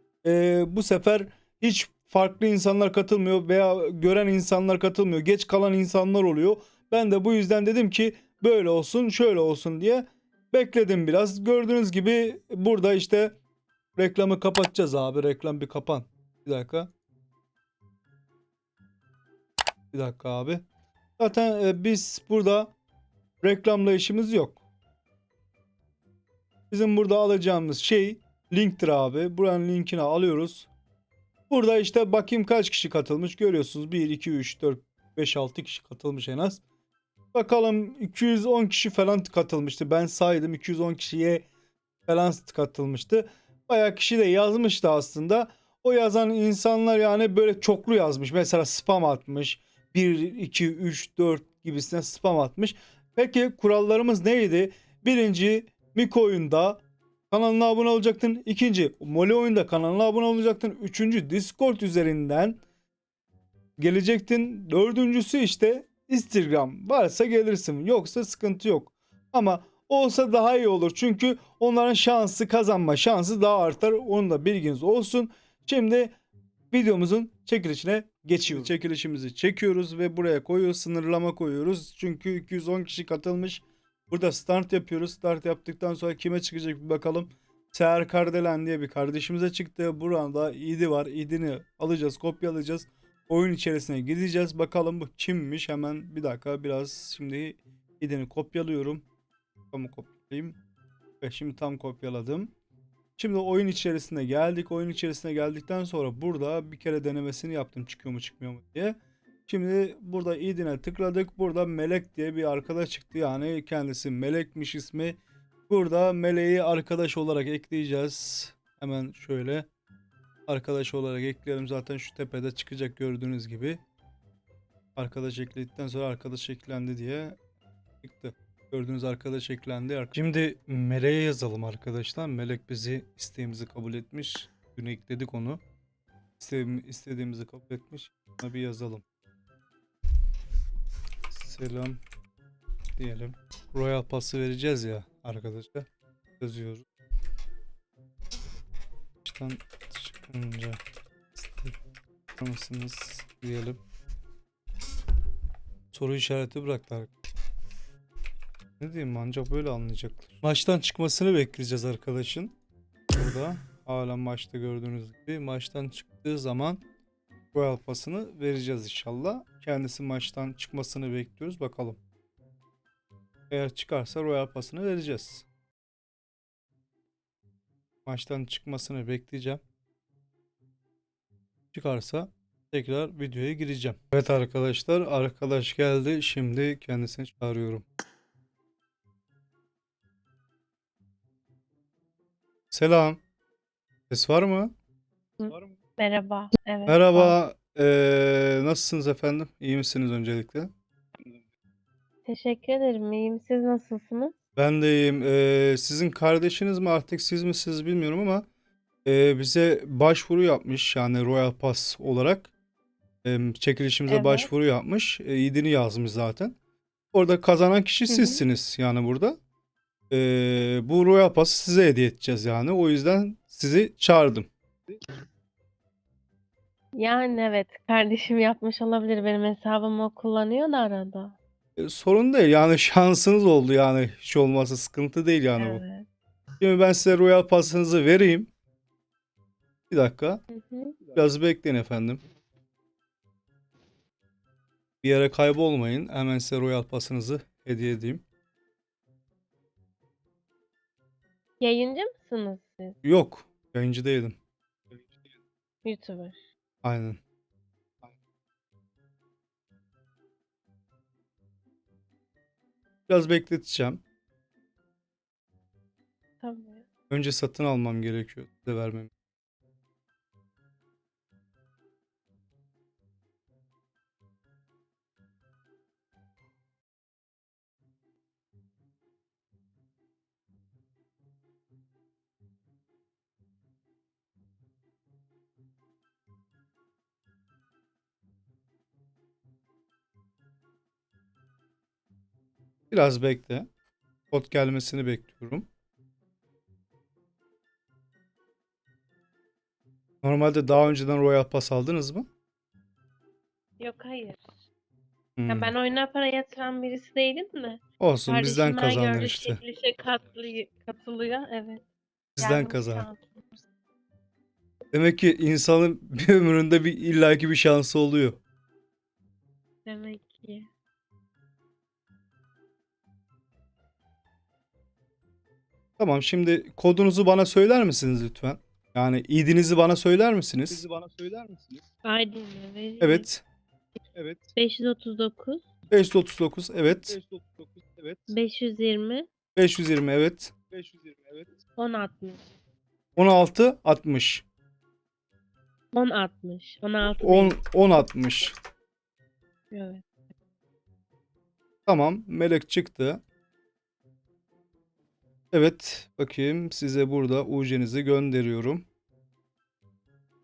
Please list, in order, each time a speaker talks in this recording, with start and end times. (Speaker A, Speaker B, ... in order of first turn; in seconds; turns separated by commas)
Speaker A: 0.2-13.4, Speaker A: 14.0-16.9, Speaker A: 19.9-20.6, Speaker A: 21.2-22.7, Speaker A: 23.4-24.6, Speaker A: 26.7-30.7, Speaker A: 31.5-36.6, Speaker A: 37.3-41.5, Speaker A: 42.1-62.6, Speaker A: 63.8-76.2, Speaker A: 76.7-99.0, Speaker A: 99.7-100.6, Speaker A: 101.2-102.5, Speaker A: 103.2-119.7, Speaker A: 120.5-123.8, Speaker A: 125.0-127.4, Speaker A: 128.0-135.6, Speaker A: 136.4-139.0, Speaker A: 141.3-142.0, Speaker A: 143.0-145.9, Speaker A: 146.4-146.8, Speaker A: 149.2-150.8, Speaker A: 151.4-151.8, Speaker A: 152.4-153.8, Speaker A: 155.9-157.1, Speaker A: 158.8-162.5, Speaker A: 163.1-166.8, Speaker A: 167.5-172.0, Speaker A: 173.5-175.5, Speaker A: 178.1-179.6, Speaker A: 181.7-187.8, Speaker A: 192.7-193.2, Speaker A: 194.1-194.7, Speaker B: 195.4-197.3, Speaker A: 196.9-200.7, Speaker B: 202.3-204.4, Speaker A: 204.6-208.5, Speaker A: 209.1-212.5, Speaker A: 213.2-216.6, Speaker B: 214.1-214.5, Speaker A: 217.1-219.4, Speaker B: 218.1-218.4, Speaker A: 220.1-224.5, Speaker B: 226.9-231.4, Speaker A: 231.8-235.8, Speaker B: 235.6-236.1, Speaker A: 236.6-238.5, Speaker A: 239.9-240.4, Speaker B: 240.5-241.0, Speaker A: 241.2-242.2, Speaker A: 245.0-248.2, Speaker B: 251.6-253.0, Speaker A: 253.0-254.4, Speaker B: 255.8-256.4, Speaker A: 256.8-257.2, Speaker A: 263.1-264.0, Speaker B: 266.4-266.9, Speaker A: 267.1-269.1, Speaker A: 292.9-293.7, Speaker A: 294.3-295.7, Speaker A: 300.2-302.3, Speaker B: 303.8-304.4, Speaker A: 305.4-305.8, Speaker B: 305.5-313.6, Speaker A: 308.0-309.6, Speaker A: 312.4-313.1, Speaker A: 314.9-318.4, Speaker B: 319.9-320.7, Speaker A: 326.0-330.9, Speaker C: 330.9-331.6, Speaker B: 332.1-333.3, Speaker A: 333.0-333.4, Speaker C: 334.2-334.4, Speaker B: 334.6-335.6, Speaker A: 335.9-337.2, Speaker C: 337.2-338.3, Speaker B: 338.3-339.3, Speaker A: 339.6-340.7, Speaker C: 340.7-341.4, Speaker B: 341.8-342.4, Speaker A: 343.2-344.4, Speaker B: 345.9-347.6, Speaker A: 347.2-348.6, Speaker B: 349.7-350.0, Speaker A: 351.9-353.2, Speaker A: 355.5-358.9